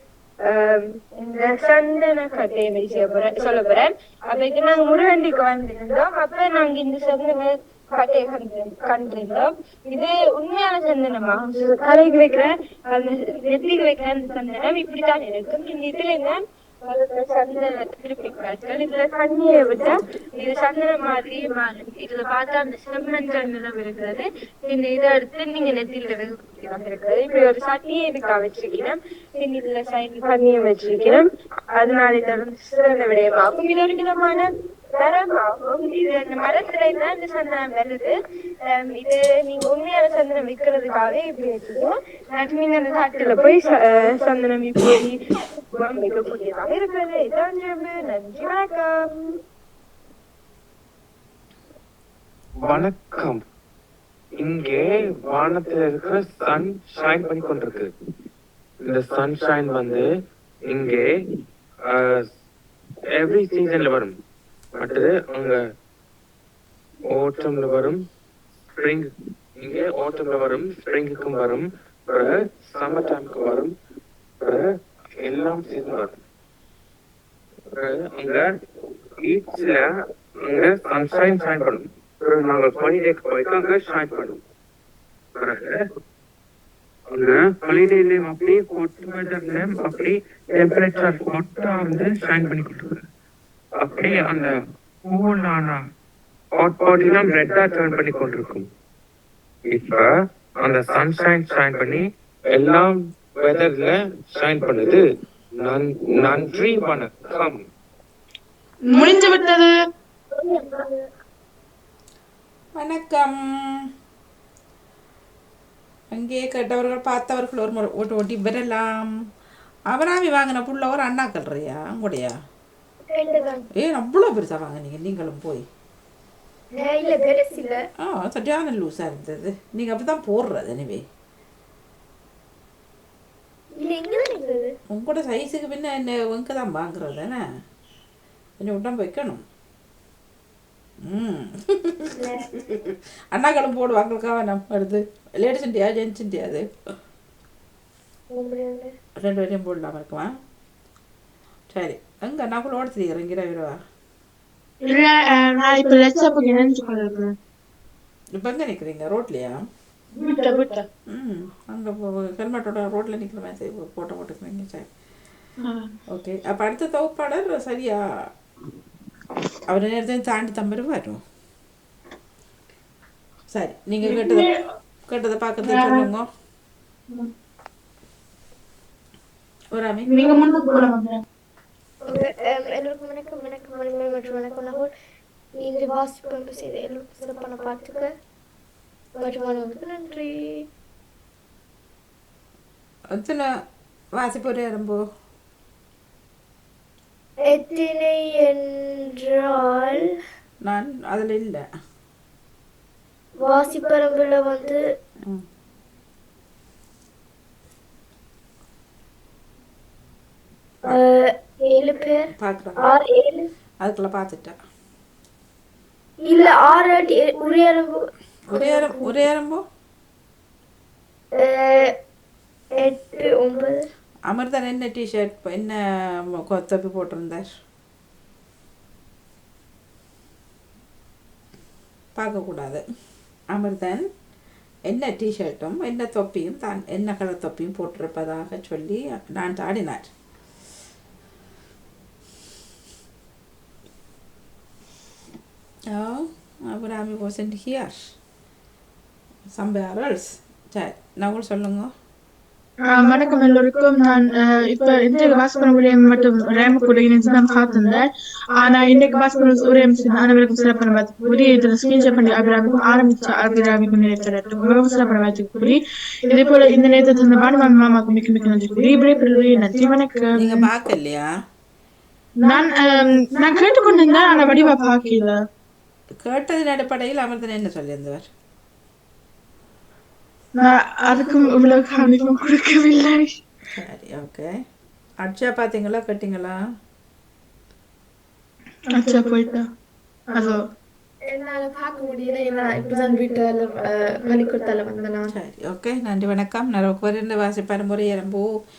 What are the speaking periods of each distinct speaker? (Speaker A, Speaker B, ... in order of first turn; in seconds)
Speaker A: 0.4-45.1, 45.8-49.4
Speaker B: 52.6-53.4, 54.4-57.9, 58.8-60.0, 60.7-61.1, 61.8-62.2, 63.1-64.2, 64.8-65.6, 67.1-68.0, 68.8-69.1, 69.6-73.7, 75.2-76.1, 77.7-78.5, 79.2-79.9, 80.4-84.4, 85.4-85.8, 87.1-93.0, 93.8-94.5, 95.1-95.8, 96.5-98.7, 99.7-100.1, 100.6-105.0, 105.6-107.6
Speaker C: 108.9-109.7, 154.9-157.3, 160.2-160.9, 165.6-165.9, 174.0-174.5, 175.6-176.1, 180.1-181.2, 252.9-258.0, 258.6-270.6, 272.4-275.4, 280.6-283.3, 288.9-289.6
Speaker D: 110.4-110.9, 123.1-123.7, 126.8-127.8, 133.8-134.7, 148.3-148.9, 182.1-184.9, 185.7-188.1, 189.2-190.3, 197.5-198.6, 199.2-200.0, 203.5-204.8, 211.7-212.3, 212.8-213.4, 216.2-218.0, 218.6-219.2, 222.8-223.8
Speaker E: 112.8-113.8, 116.1-119.1, 119.9-122.3, 123.8-125.7, 128.0-131.0, 134.9-137.4, 138.6-139.4, 141.1-146.7, 149.2-150.3, 151.7-153.8, 158.4-159.6, 161.1-164.9, 166.1-168.0, 169.7-171.2, 173.5-174.5, 175.1-176.3, 179.7-180.3, 193.1-193.4, 194.2-195.0, 200.7-201.6, 212.3-212.8, 213.8-214.6, 218.5-219.6, 224.3-225.8, 226.5-227.5, 232.2-232.8, 233.5-234.0, 234.9-240.1, 245.9-248.1, 249.6-251.9, 270.4-271.3, 276.2-278.3, 283.7-284.5, 285.2-286.6, 295.3-298.5